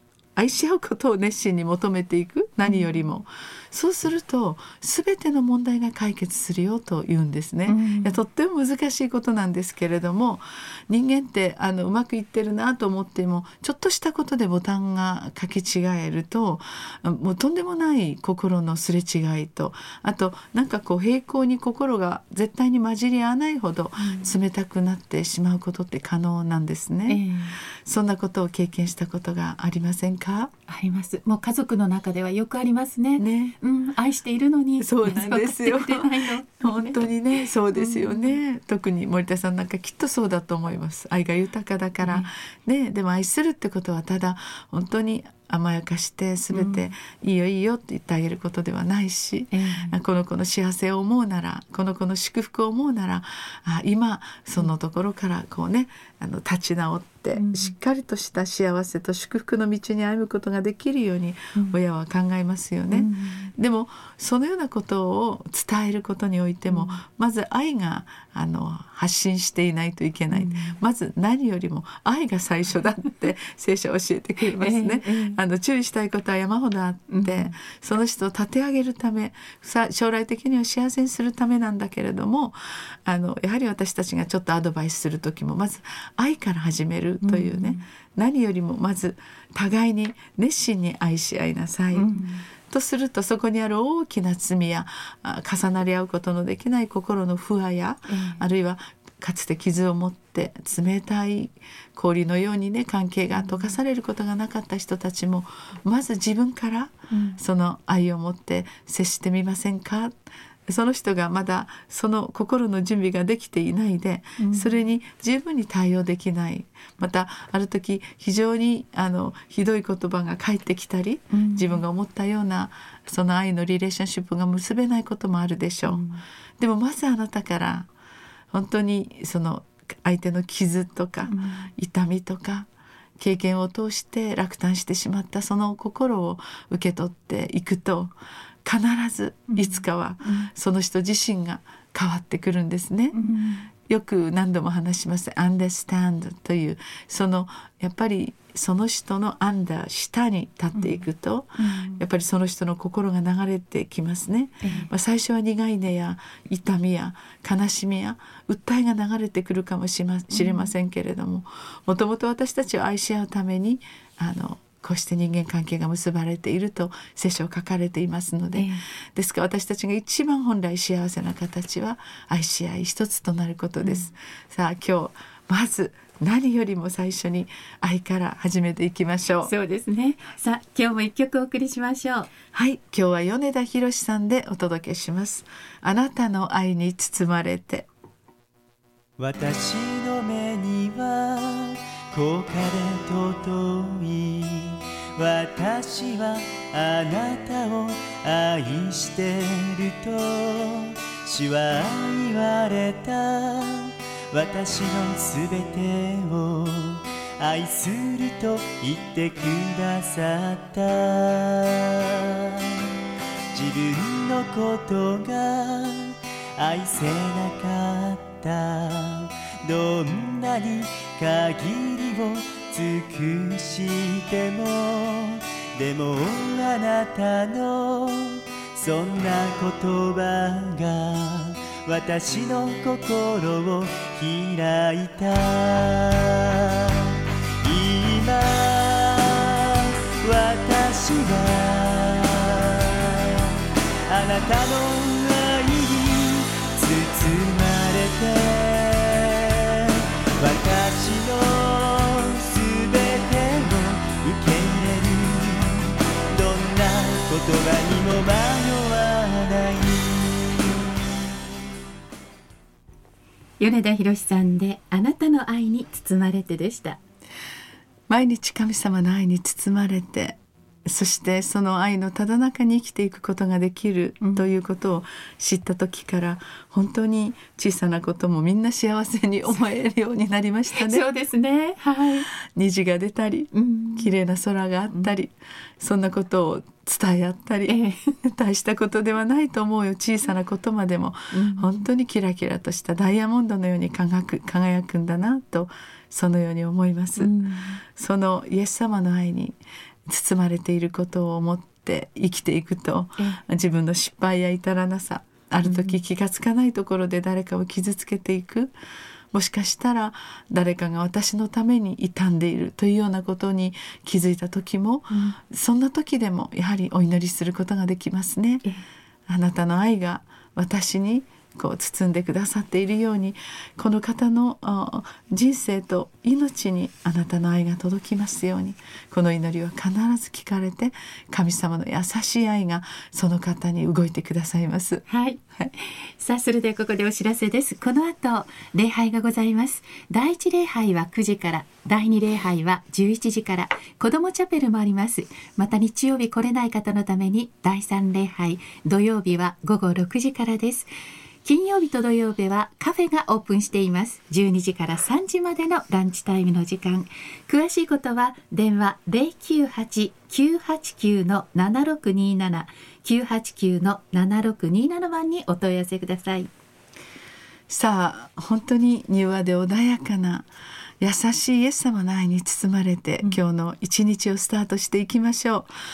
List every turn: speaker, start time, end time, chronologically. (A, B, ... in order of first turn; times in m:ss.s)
0:00.4-0:30.5 A
0:02.6-0:02.9 B
0:07.7-0:08.2 B
0:24.0-0:24.3 B
0:27.1-0:27.6 B
0:30.7-0:38.4 B
0:33.2-0:33.6 A
0:34.8-1:50.1 A
0:42.0-0:42.3 B
0:46.5-0:46.8 B
0:49.5-0:50.0 B
0:57.3-0:57.7 B
1:02.9-1:03.5 B
1:06.7-1:07.0 B
1:10.3-1:10.8 B
1:14.4-1:15.4 B
1:17.1-1:17.5 B
1:27.2-1:27.8 B
1:31.9-1:32.5 B
1:38.1-1:38.4 B
1:43.4-1:43.7 B
1:47.1-1:47.4 B
1:50.7-2:06.0 A
1:54.4-1:54.8 B
2:01.3-2:01.8 B
2:05.9-2:06.2 B
2:06.6-2:07.9 A
2:08.5-2:12.7 A
2:11.3-2:11.7 B
2:13.2-2:18.1 A
2:18.6-2:23.2 A
2:19.5-2:20.5 B
2:23.1-2:23.7 B
2:23.8-2:59.5 A
2:30.7-2:31.0 B
2:31.6-2:32.0 B
2:34.6-2:34.9 B
2:40.3-2:40.7 B
2:48.5-2:48.8 B
2:53.8-2:54.1 B
2:59.4-3:02.3 B
3:02.5-3:07.9 A
3:09.2-3:32.9 C
3:33.5-4:20.8 C
4:23.6-4:27.0 B
4:28.1-4:41.1 A
4:34.2-4:34.5 B
4:40.7-4:42.2 B
4:42.2-5:08.7 A
4:43.5-4:44.1 B
4:47.7-4:48.2 B
4:51.3-4:51.8 B
4:57.2-4:57.8 B
5:05.6-5:06.0 B
5:09.3-5:18.7 A
5:19.3-5:35.7 A
5:35.1-5:50.9 B
5:51.4-6:06.5 B
6:07.7-6:10.5 A
6:11.0-6:15.7 A